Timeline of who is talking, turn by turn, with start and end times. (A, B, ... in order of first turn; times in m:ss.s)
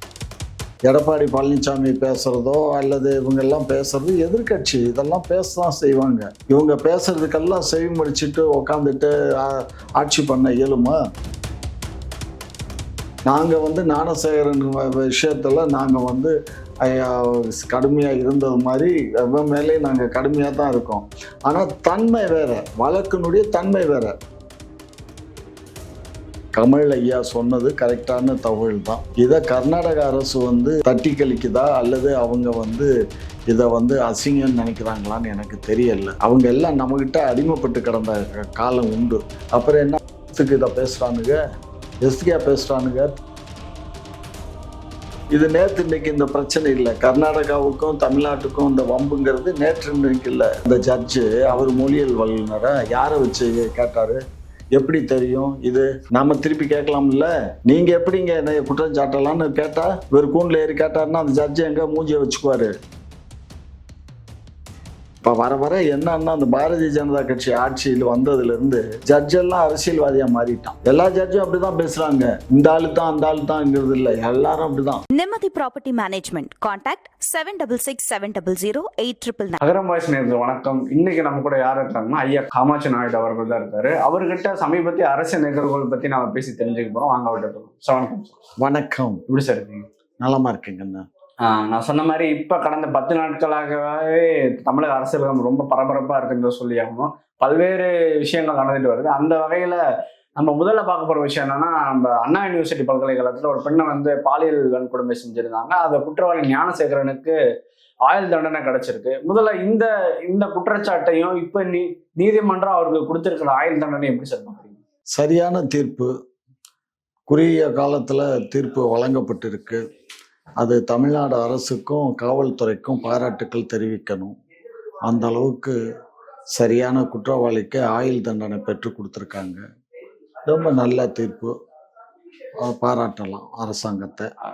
0:00.9-0:11.0 A
0:13.3-0:16.3 A
0:16.8-0:24.1 A
0:26.6-0:32.9 A
0:33.5-0:41.4 A
0:42.0-0:43.1 A
0:45.3-0:54.2 A
0:54.8-1:02.7 A
1:05.2-1:15.0 A
1:15.1-1:19.6 B
1:19.6-1:28.4 C
1:28.6-1:29.2 A
1:29.3-1:29.9 C
1:30.2-1:31.0 A
1:31.4-1:39.8 C
1:40.4-1:47.4 C
1:48.0-1:54.8 C
1:55.2-1:56.1 A
1:57.3-1:59.8 A
2:00.6-2:04.3 A
2:05.0-2:05.8 A
2:06.6-2:09.6 A
2:10.4-2:11.5 A
2:12.6-2:14.3 A